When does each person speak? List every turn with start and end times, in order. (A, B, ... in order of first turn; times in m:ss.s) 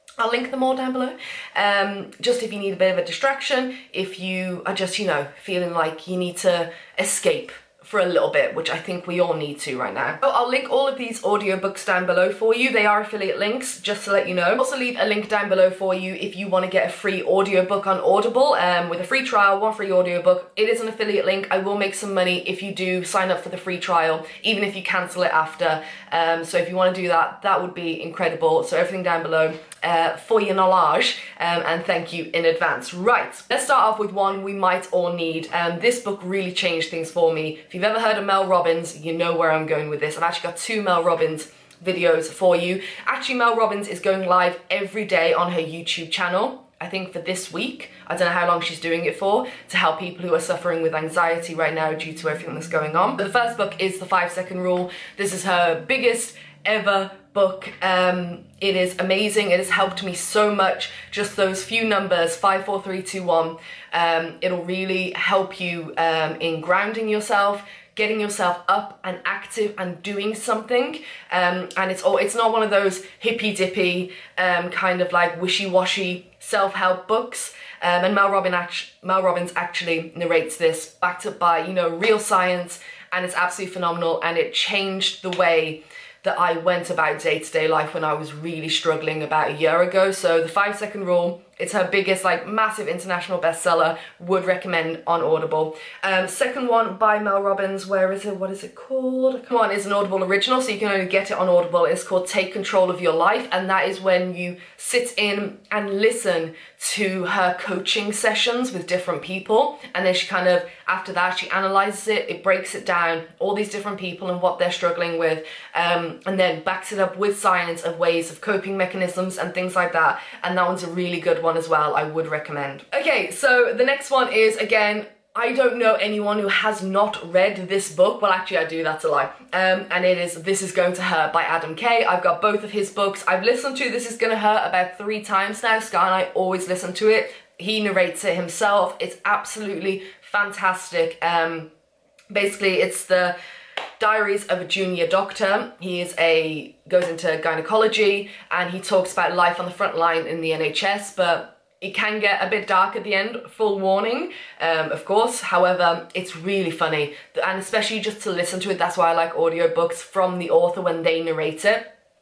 0:00.2-2:21.7 A
2:22.3-2:23.4 A
2:24.0-2:41.9 A